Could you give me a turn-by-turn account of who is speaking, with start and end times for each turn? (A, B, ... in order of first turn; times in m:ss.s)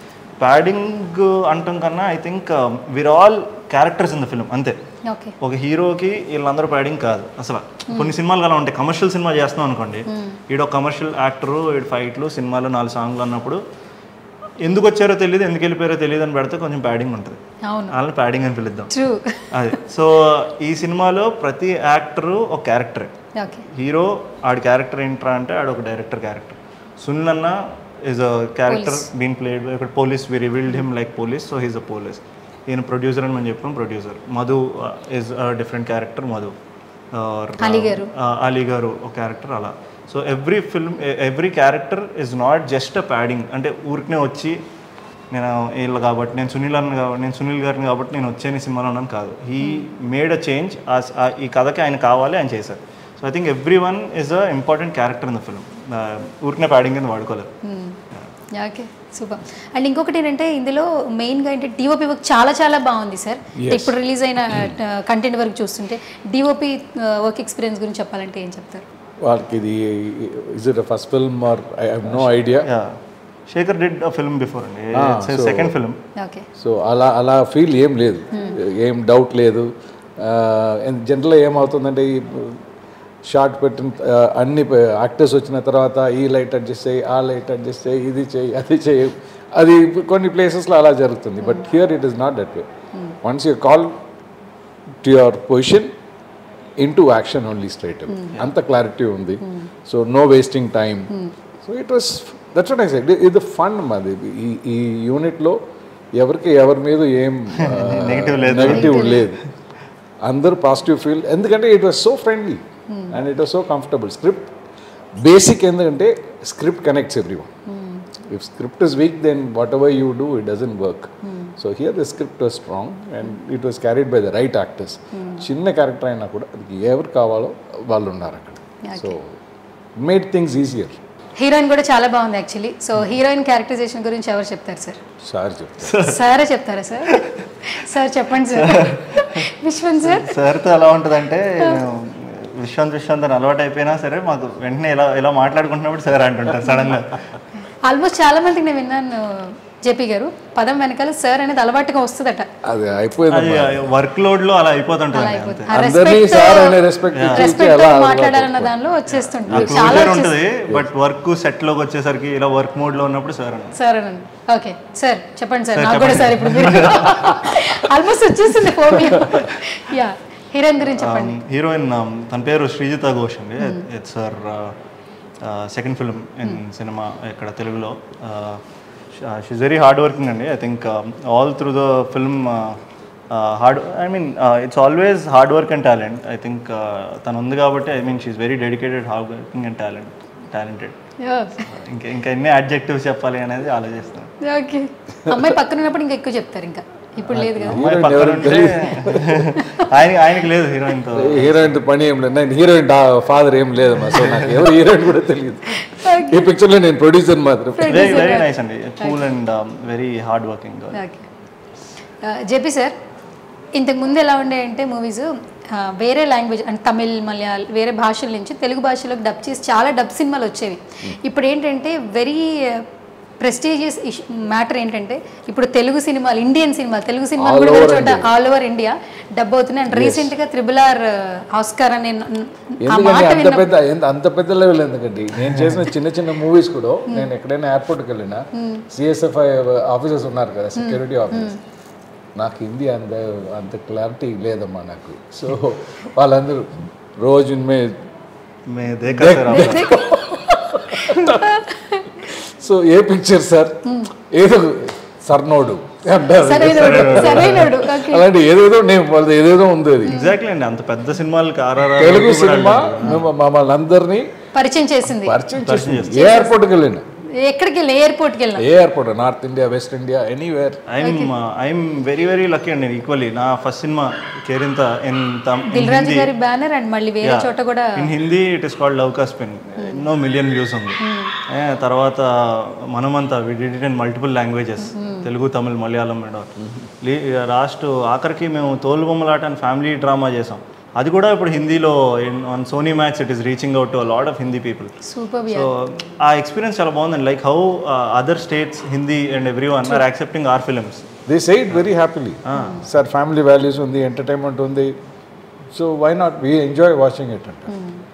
0:00.4-0:04.8 A
0:05.1-0:05.4 B
0:05.4-0:13.6 A
0:10.1-0:10.4 B
0:14.6-0:18.9 A
0:17.6-0:18.0 B
0:18.9-0:19.8 B
0:19.5-0:23.1 A
0:23.4-0:23.6 B
0:23.7-0:36.6 A
0:28.7-0:29.1 B
0:37.1-0:44.6 A
0:37.6-0:38.1 B
0:45.3-0:57.5 A
0:49.6-0:49.9 B
0:57.6-0:58.0 B
0:58.5-1:08.9 B
1:03.6-1:04.8 C
1:09.2-1:12.7 C
1:12.1-1:16.0 A
1:14.9-1:15.8 C
1:16.2-1:16.5 B
1:16.6-1:22.6 C
1:18.3-1:18.6 B
1:23.2-1:32.7 C
1:33.2-1:34.0 C
1:35.0-1:35.9 C
1:36.8-1:41.1 C
1:38.1-1:38.4 B
1:41.6-1:45.6 C
1:46.2-1:49.4 C
1:47.6-1:49.4 A
1:48.6-1:49.3 B
1:50.2-1:54.5 C
1:52.9-1:53.2 B
1:55.2-1:57.5 C
1:57.7-1:58.0 B
1:58.2-2:09.4 C
2:01.2-2:01.5 B
2:05.1-2:05.5 B
2:08.8-2:09.2 B
2:10.0-2:11.0 C
2:11.4-2:15.0 B
2:15.2-2:16.0 C
2:15.8-2:16.3 A
2:16.0-2:20.4 B
2:18.6-2:19.5 A
2:20.0-2:27.2 A
2:26.6-2:26.9 B
2:27.6-2:32.5 B
2:32.6-2:33.9 C
2:33.3-2:35.7 A
2:35.1-2:40.4 B
2:35.7-2:38.8 C
2:37.1-2:37.5 A
2:39.1-2:43.8 A
2:39.5-2:40.9 C
2:43.8-2:51.4 B
2:45.8-2:47.9 A
2:49.2-2:49.5 A
2:50.8-2:54.8 A
2:55.4-2:58.6 A
2:59.1-3:11.0 A
3:11.2-3:11.7 B
3:11.6-3:14.3 A
3:14.4-3:17.9 B
3:15.3-3:15.6 C
3:17.3-3:19.5 C
3:17.6-3:21.8 A
3:19.5-3:19.9 B
3:21.1-3:28.2 C
3:25.8-3:26.4 B
3:27.8-3:29.2 B
3:27.9-3:31.0 A
3:30.9-3:31.3 B
3:32.2-3:33.0 B
3:33.8-3:42.9 B
3:43.4-3:53.8 B
3:47.4-3:48.3 C
3:49.9-3:50.3 C
3:52.8-4:01.6 C
3:58.6-3:58.8 B
4:00.8-4:01.6 B
4:02.4-4:08.0 C
4:08.7-4:09.9 A
4:09.1-4:11.6 C
4:09.5-4:10.2 B
4:10.8-4:12.2 B
4:12.2-4:20.2 C
4:13.8-4:14.1 B
4:16.3-4:18.2 B
4:16.6-4:17.7 A
4:20.0-4:23.3 A
4:20.1-4:20.4 B
4:21.9-4:24.4 C
4:24.5-4:25.4 B
4:25.0-4:27.0 C
4:25.6-4:26.3 A
4:26.1-4:26.5 B
4:27.4-4:28.7 B
4:28.6-4:30.8 C
4:30.9-4:36.3 A
4:31.0-4:31.3 B
4:35.7-4:38.1 B
4:37.2-4:46.5 A
4:39.8-4:40.0 B
4:41.0-4:41.3 B
4:44.8-4:45.3 B
4:47.0-4:55.0 A
4:55.0-4:55.7 B
4:55.5-5:01.1 A
5:01.3-5:05.0 C
5:02.4-5:02.8 A
5:02.5-5:02.8 B
5:05.7-5:07.7 C
5:07.7-5:08.0 B